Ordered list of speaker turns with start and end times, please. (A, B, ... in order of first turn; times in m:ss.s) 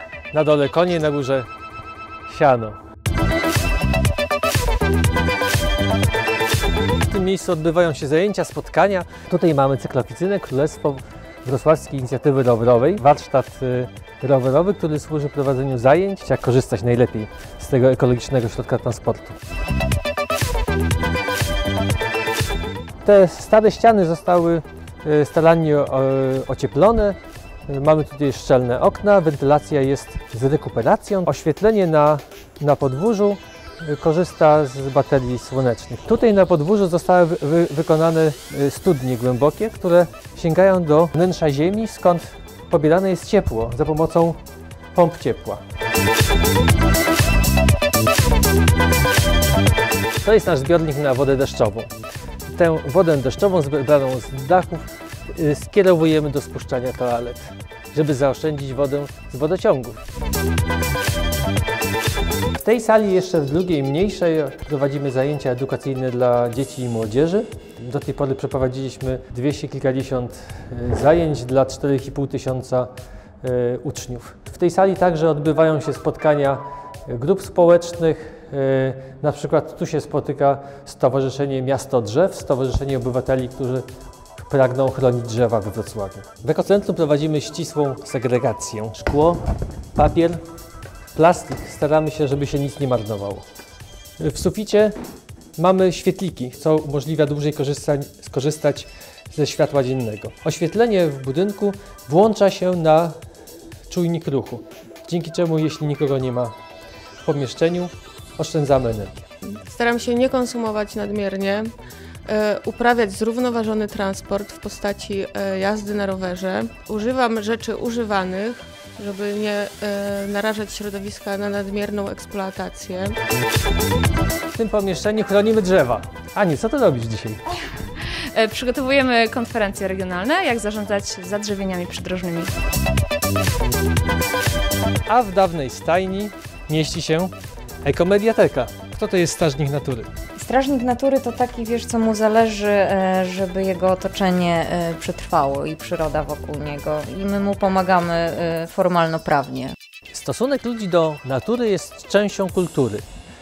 0:00.3-0:01.5 A
0:02.3-0:02.8 A
0:07.0-0:19.4 A
0:23.0-0:27.2 A
0:27.7-0:44.4 A
0:44.9-0:45.6 A
0:50.2-0:51.9 A
0:52.5-1:00.0 A
1:02.5-1:12.9 A
1:13.4-1:23.8 A
1:24.4-1:29.4 A
1:29.9-1:30.4 A
1:31.1-1:33.4 A
1:34.2-1:34.9 A
1:35.6-1:43.2 A
1:43.9-1:46.5 A
1:47.2-1:49.3 A
1:49.5-1:51.7 B
1:52.2-2:03.2 B
2:04.5-2:07.4 A
2:08.3-2:12.5 C
2:15.0-2:20.1 A
2:20.4-2:29.7 D
2:30.1-2:33.0 A